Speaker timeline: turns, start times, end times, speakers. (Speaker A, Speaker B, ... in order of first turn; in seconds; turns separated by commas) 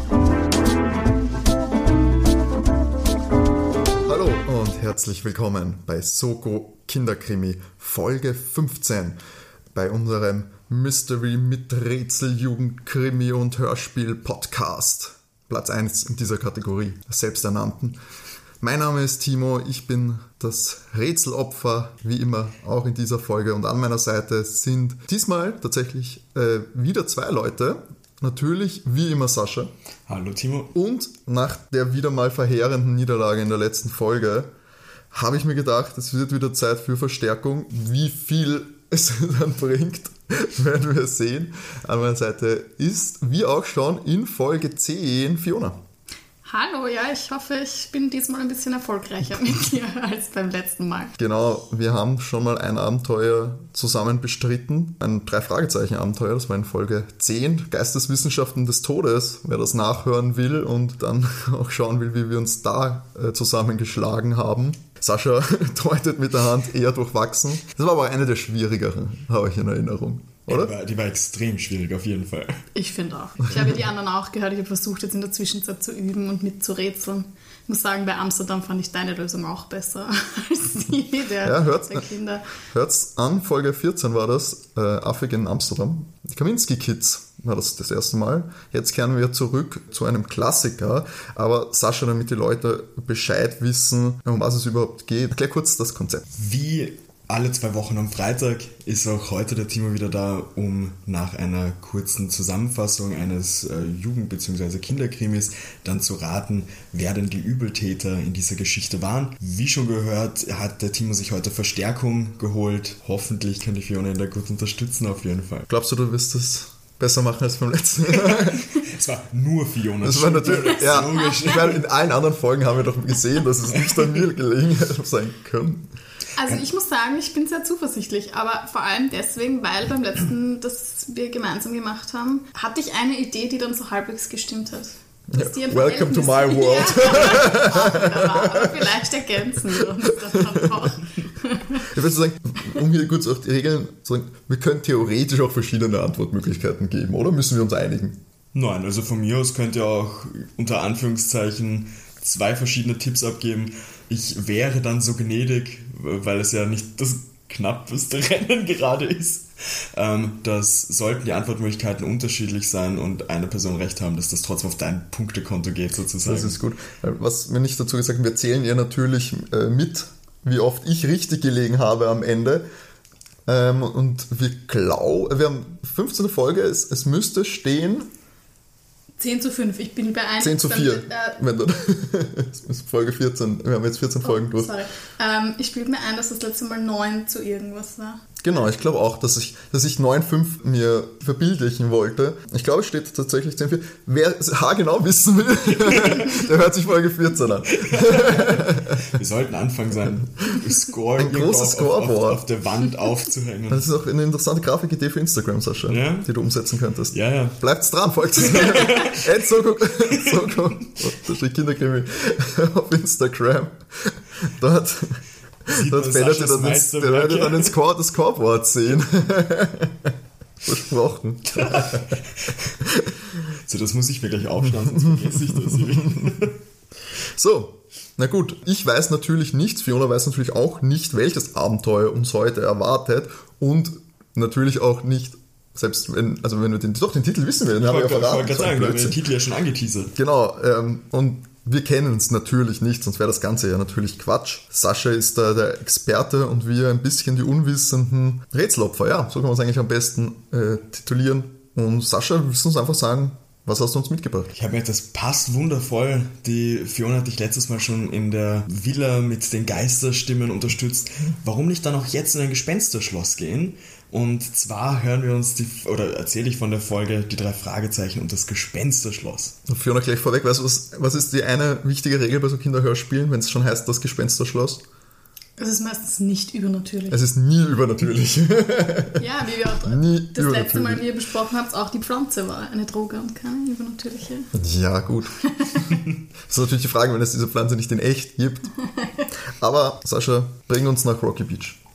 Speaker A: 4.0-9.2, Speaker A: 9.7-18.0, Speaker A: 18.6-29.7, Speaker B: 30.1-30.7, Speaker A: 30.7-34.5, Speaker A: 35.1-45.8, Speaker C: 46.4-51.1, Speaker A: 51.2-70.7, Speaker B: 70.5-72.6, Speaker C: 72.7-82.5, Speaker A: 81.4-82.0, Speaker A: 82.7-96.2, Speaker B: 96.3-115.7, Speaker A: 115.7-118.7, Speaker B: 118.2-121.8, Speaker A: 120.0-125.9, Speaker C: 120.5-121.7, Speaker B: 123.8-124.1, Speaker C: 126.4-141.8, Speaker A: 135.3-138.9, Speaker A: 141.8-148.2, Speaker B: 148.5-166.6, Speaker A: 166.2-172.6, Speaker A: 173.4-178.1, Speaker C: 179.2-181.4, Speaker A: 180.4-184.7, Speaker C: 184.2-188.2, Speaker A: 188.4-199.0, Speaker B: 195.8-196.3, Speaker B: 197.7-203.9, Speaker A: 201.2-202.4, Speaker A: 203.7-222.2, Speaker B: 205.9-206.3, Speaker B: 207.1-207.6, Speaker B: 208.5-209.3, Speaker B: 210.1-210.6, Speaker B: 215.7-217.7, Speaker B: 221.5-222.7, Speaker A: 222.8-223.3, Speaker B: 223.6-226.6, Speaker A: 224.9-226.3, Speaker A: 227.3-239.2, Speaker B: 237.8-240.1, Speaker A: 240.2-254.5, Speaker B: 254.5-269.6, Speaker A: 269.7-274.8, Speaker C: 275.6-277.2, Speaker A: 277.1-279.2, Speaker C: 279.2-284.5, Speaker A: 279.8-281.0, Speaker A: 284.5-285.4, Speaker C: 285.5-286.0, Speaker A: 286.5-288.7, Speaker C: 288.8-289.2, Speaker A: 289.6-291.8